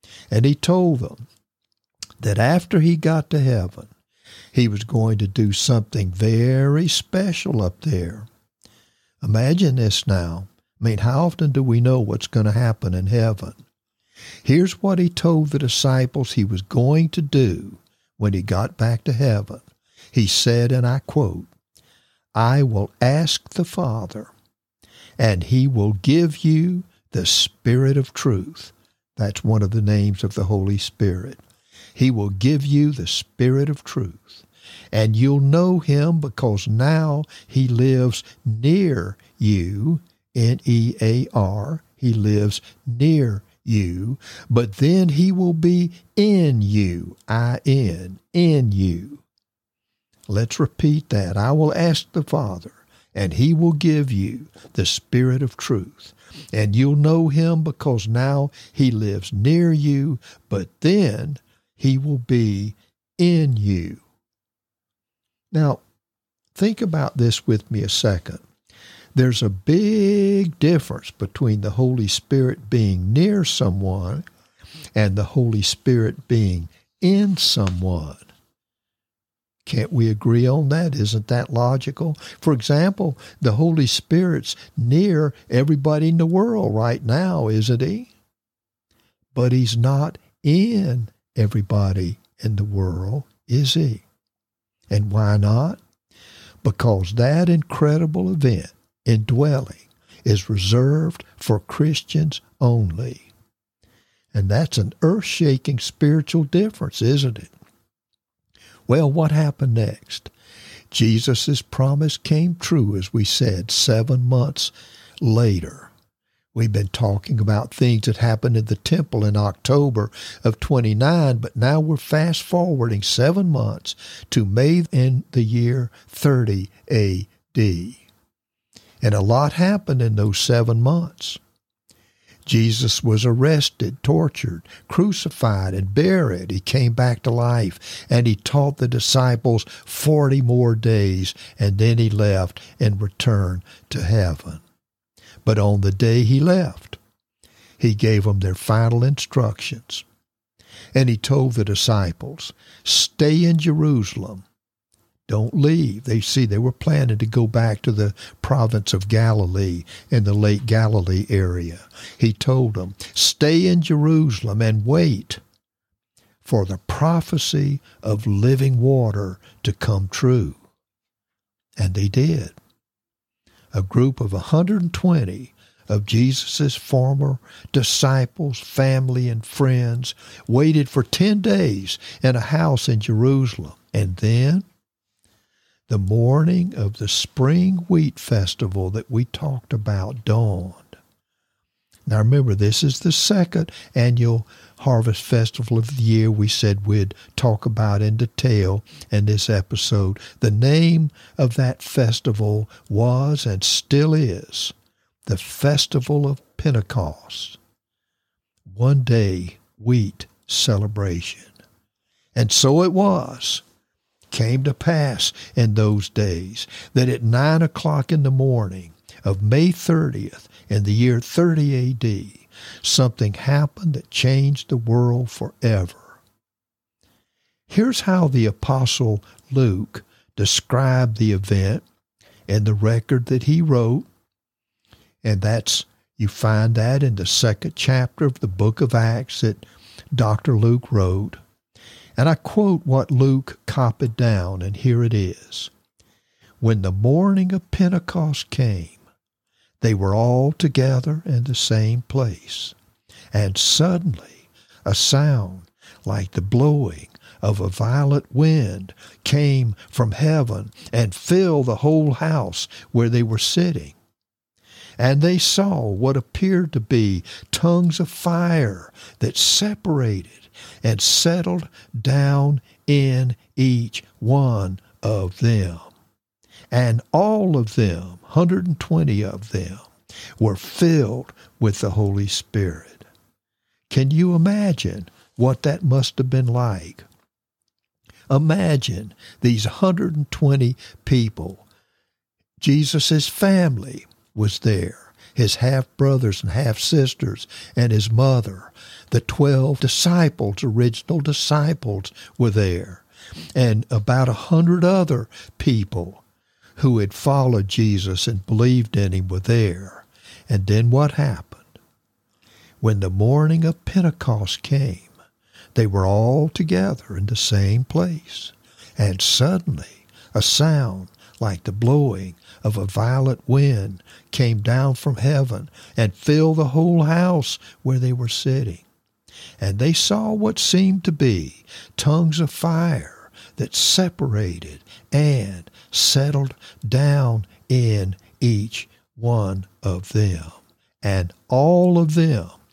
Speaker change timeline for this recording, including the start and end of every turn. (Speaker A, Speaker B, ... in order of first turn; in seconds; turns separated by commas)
Speaker A: 0.3-1.2, Speaker A: 2.2-3.9, Speaker A: 4.5-8.3, Speaker A: 9.2-13.6, Speaker A: 14.4-19.6, Speaker A: 20.1-21.5, Speaker A: 22.3-24.3, Speaker A: 25.2-31.4, Speaker A: 31.9-49.2, Speaker A: 50.3-64.0, Speaker A: 65.5-65.8, Speaker A: 66.5-68.4, Speaker A: 69.1-74.2, Speaker A: 74.9-78.3, Speaker A: 79.6-88.1, Speaker A: 89.3-94.0, Speaker A: 94.9-95.8, Speaker A: 96.6-103.3, Speaker A: 104.3-107.5, Speaker A: 108.9-110.3, Speaker A: 110.9-115.9, Speaker A: 116.5-128.0, Speaker A: 129.0-131.4, Speaker A: 132.4-144.6, Speaker A: 145.4-147.0, Speaker A: 147.8-150.0, Speaker A: 150.9-154.4, Speaker A: 155.3-165.4, Speaker A: 166.4-170.6, Speaker A: 171.8-172.6, Speaker A: 173.7-184.6, Speaker A: 185.9-191.0, Speaker A: 192.1-204.7, Speaker A: 205.2-207.6, Speaker A: 208.7-211.5, Speaker A: 212.3-213.6, Speaker A: 214.3-226.2, Speaker A: 227.7-231.8, Speaker A: 232.5-234.1, Speaker A: 235.2-241.4, Speaker A: 242.2-245.7, Speaker A: 246.6-249.0, Speaker A: 249.8-252.7, Speaker A: 253.3-264.0, Speaker A: 265.0-275.9, Speaker A: 276.7-283.1, Speaker A: 283.9-287.0, Speaker A: 288.3-291.7, Speaker A: 292.6-303.0, Speaker A: 303.5-306.2, Speaker A: 306.8-311.8, Speaker A: 312.8-315.1, Speaker A: 315.7-328.9, Speaker A: 329.6-342.6